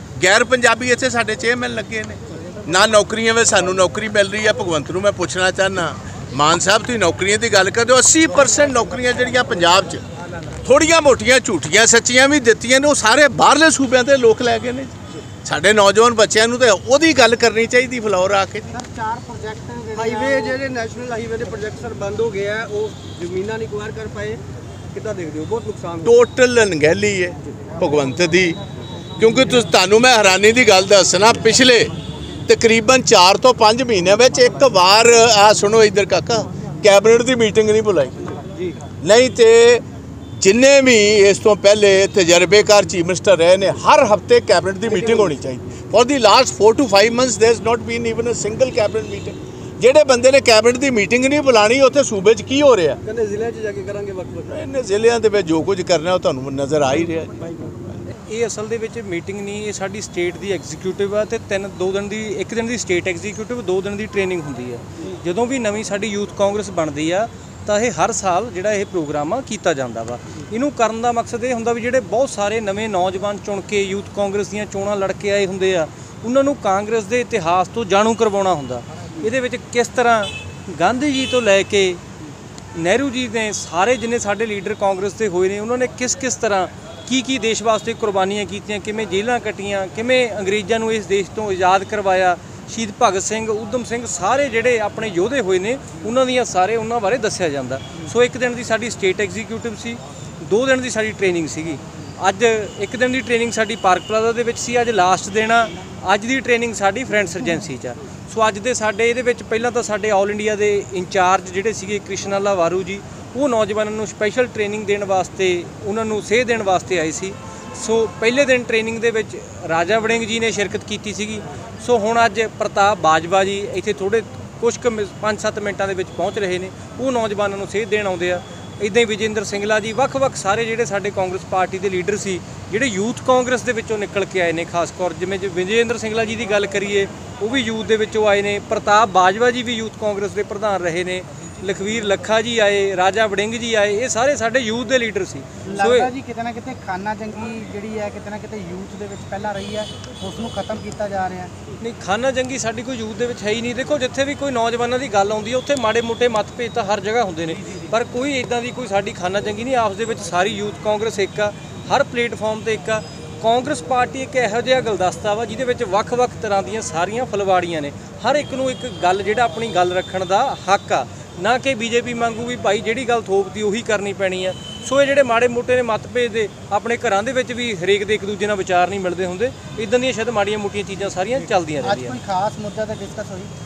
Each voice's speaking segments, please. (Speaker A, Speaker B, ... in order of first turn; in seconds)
Speaker A: 0.2-10.1, 10.6-18.7, 26.1-28.6, 29.2-31.9, 32.5-38.3, 39.0-39.8, 40.4-53.0, 54.5-57.5
Speaker B: 18.7-20.7, 145.7-151.5, 181.8-183.5
Speaker C: 20.0-24.4, 24.9-26.1, 53.1-54.6
Speaker D: 58.1-82.0, 82.7-146.1, 151.8-182.2